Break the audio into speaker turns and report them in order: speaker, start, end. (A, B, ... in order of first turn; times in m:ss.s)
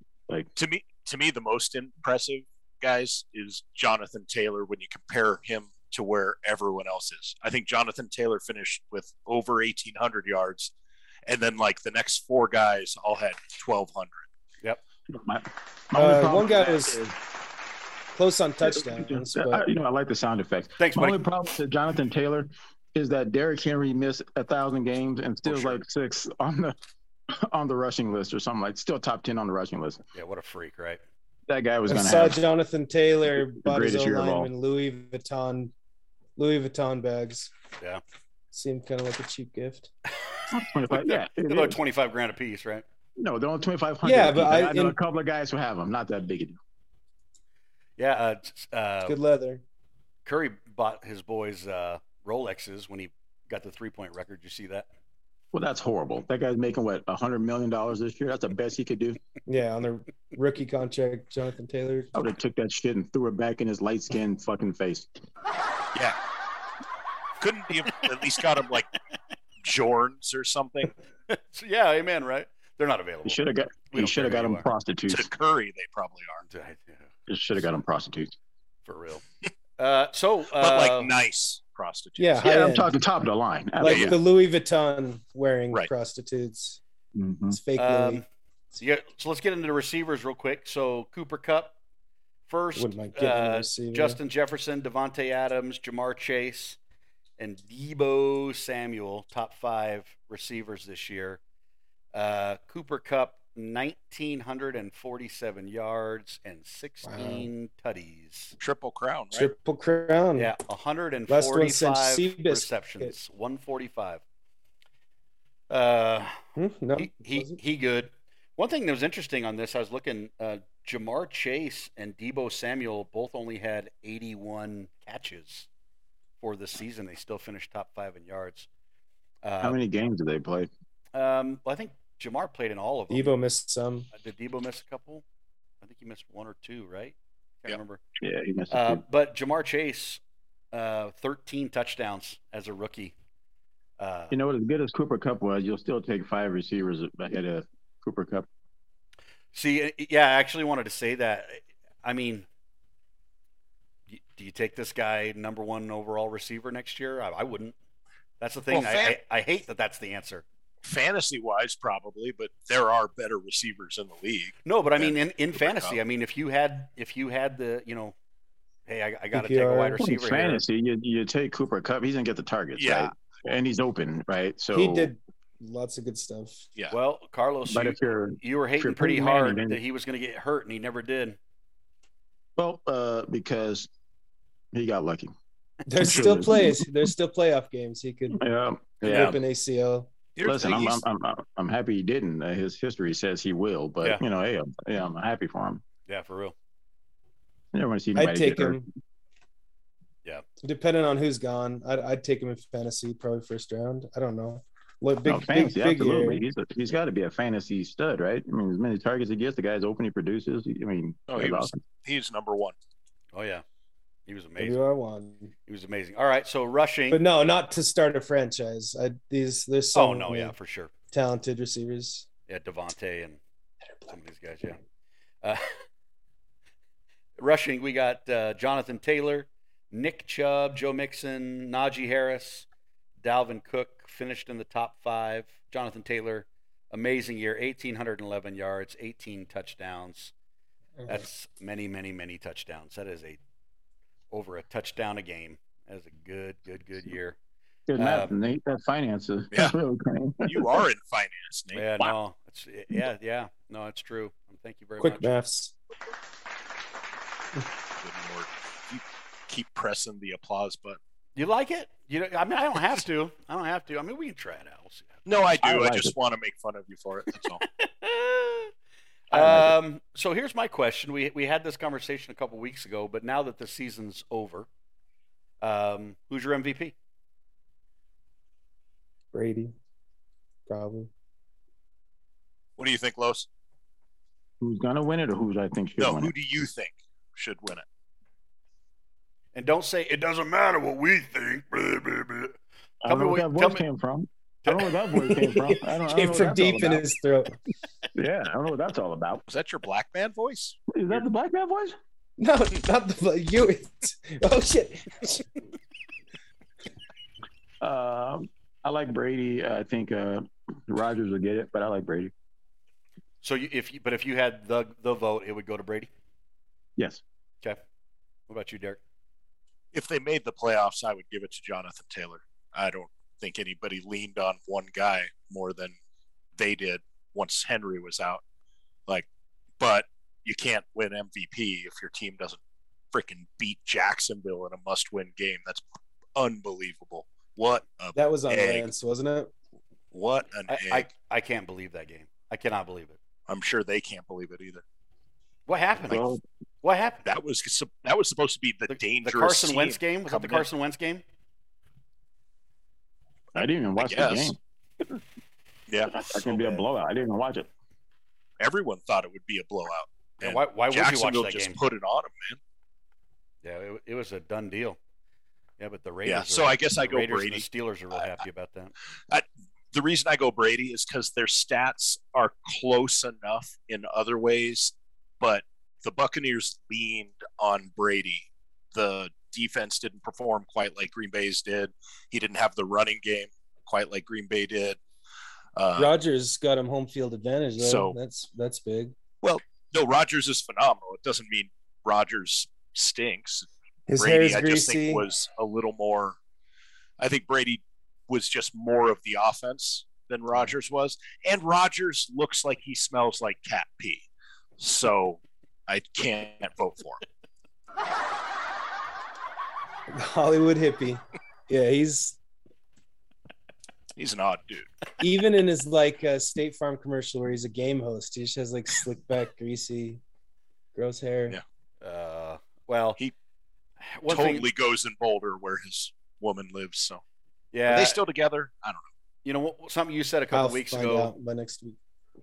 0:00.6-0:10.7 A
0:11.3-0:14.2 A
0:15.1-0:17.2 B
0:15.9-0:17.0 C
0:18.1-0:19.6 C
0:18.6-0:26.8 B
0:20.8-0:21.2 D
0:25.5-0:25.8 A
0:27.3-0:30.0 B
0:30.2-0:31.0 D
0:31.5-0:32.4 B
0:31.9-0:35.7 C
0:33.2-0:34.5 B
0:36.4-0:37.5 C
0:38.5-0:39.9 C
0:40.4-0:42.8 D
0:40.5-0:41.8 B
0:43.2-0:46.6 B
0:44.0-0:45.0 C
0:48.0-0:49.2 D
0:49.1-0:49.6 C
0:50.2-0:54.9 D
0:55.5-0:59.2 B
0:59.5-1:02.1 C
1:02.1-1:05.1 B
1:07.4-1:08.9 A
1:09.6-1:10.9 A
1:11.3-1:14.7 D
1:13.2-1:15.3 B
1:15.1-1:16.4 A
1:16.5-1:17.1 D
1:17.3-1:18.3 B
1:18.8-1:19.2 D
1:19.8-1:21.1 D
1:20.6-1:22.4 A
1:22.2-1:22.9 C
1:22.4-1:24.2 B
1:23.8-1:26.8 C
1:23.9-1:24.1 A
1:27.2-1:27.6 B
1:27.5-1:28.2 C
1:27.8-1:28.3 D
1:28.8-1:31.8 D
1:32.5-1:36.8 D
1:32.8-1:34.2 C
1:37.4-1:41.4 D
1:42.1-1:48.6 D
1:47.0-1:47.5 C
1:48.6-1:49.5 A
1:49.3-1:50.5 C
1:50.4-1:54.2 D
1:51.3-1:53.2 C
1:55.7-1:56.4 D
1:56.6-1:57.6 C
1:57.0-2:05.7 D
2:06.4-2:08.7 D
2:09.4-2:09.8 D
2:09.6-2:10.7 B
2:11.1-2:13.3 D
2:13.1-2:14.1 C
2:14.1-2:15.2 D
2:15.8-2:18.0 D
2:18.2-2:19.0 B
2:18.7-2:20.2 D
2:20.7-2:23.1 D
2:24.0-2:24.4 D
2:24.3-2:28.5 B
2:29.5-2:32.5 D
2:34.1-2:37.8 D
2:38.4-2:40.4 D
2:38.7-2:39.2 A
2:40.8-2:46.0 A
2:44.6-2:48.2 D
2:48.9-2:50.6 D
2:49.4-2:50.0 C
2:50.0-2:55.1 B
2:52.8-2:53.1 A
2:54.7-2:56.6 C
2:56.9-3:01.4 D
2:57.7-2:59.8 B
3:02.6-3:03.9 B
3:04.7-3:05.3 B
3:05.9-3:08.4 C
3:06.0-3:07.1 B
3:08.3-3:09.4 B
3:09.0-3:10.1 C
3:10.4-3:11.0 A
3:10.4-3:15.8 B
3:16.1-3:16.6 D
3:17.7-3:18.8 B
3:18.2-3:18.9 C
3:20.6-3:26.4 C
3:25.2-3:31.8 B
3:31.3-3:32.8 A
3:33.3-3:33.6 D
3:34.3-3:34.8 D
3:34.6-3:35.5 C
3:35.7-3:37.2 D
3:37.1-3:40.5 C
3:39.9-3:40.9 D
3:41.1-3:42.3 C
3:42.5-3:43.4 D
3:44.1-3:44.8 D
3:45.4-3:45.8 D
3:47.4-3:52.7 D
3:53.2-4:00.3 D
4:01.1-4:03.4 D
4:04.3-4:07.4 D
4:07.9-4:10.8 B
4:08.0-4:08.3 D
4:10.4-4:12.1 A
4:11.7-4:15.3 D
4:15.0-4:15.8 C
4:18.0-4:21.0 A
4:21.4-4:25.2 D
4:25.3-4:27.6 A
4:25.6-4:26.2 B
4:27.7-4:28.7 D
4:29.3-4:34.7 D
4:29.3-4:29.8 B
4:35.6-4:37.0 D
4:39.3-4:39.8 C
4:40.7-4:41.1 C
4:42.8-4:43.5 A
4:44.6-4:46.3 B
4:46.0-4:47.8 A
4:49.5-4:53.8 D
4:53.0-4:57.0 B
4:54.6-4:54.9 D
4:55.2-4:57.6 C
4:58.2-4:59.4 B
4:59.5-5:01.2 A
5:00.9-5:02.0 B
5:02.4-5:05.5 C
5:07.8-5:12.3 B
5:13.4-5:16.1 D
5:17.0-5:17.2 B
5:18.5-5:19.0 D
5:19.9-5:25.9 A
5:26.6-5:28.4 A
5:29.8-5:32.6 A
5:33.1-5:35.8 A
5:36.4-5:38.9 A
5:38.2-5:39.5 C
5:40.1-5:41.1 A
5:40.7-5:43.2 D
5:43.5-5:44.8 A
5:45.7-5:47.3 D
5:46.0-5:46.4 B
5:47.3-5:50.7 A
5:48.9-5:51.2 D
5:53.6-5:54.6 B
5:54.0-5:54.6 A
5:56.1-5:57.7 B
5:56.3-5:56.8 D
5:58.6-6:02.6 A
6:00.4-6:01.8 D
6:03.6-6:05.0 D
6:05.8-6:08.9 D
6:06.3-6:07.6 A
6:09.3-6:25.0 A
6:25.8-6:26.1 A
6:26.0-6:29.2 C
6:27.8-6:28.2 A
6:29.4-6:36.4 A
6:34.1-6:35.2 C
6:37.2-6:44.2 A
6:44.8-6:47.2 A
6:50.1-6:52.4 C
6:54.2-6:54.9 A
6:55.2-7:00.2 C
7:01.0-7:01.6 C
7:02.0-7:03.2 D
7:04.0-7:04.7 D
7:04.3-7:07.2 A
7:07.7-7:08.2 D
7:07.9-7:09.0 A
7:09.4-7:11.3 D
7:10.5-7:12.0 C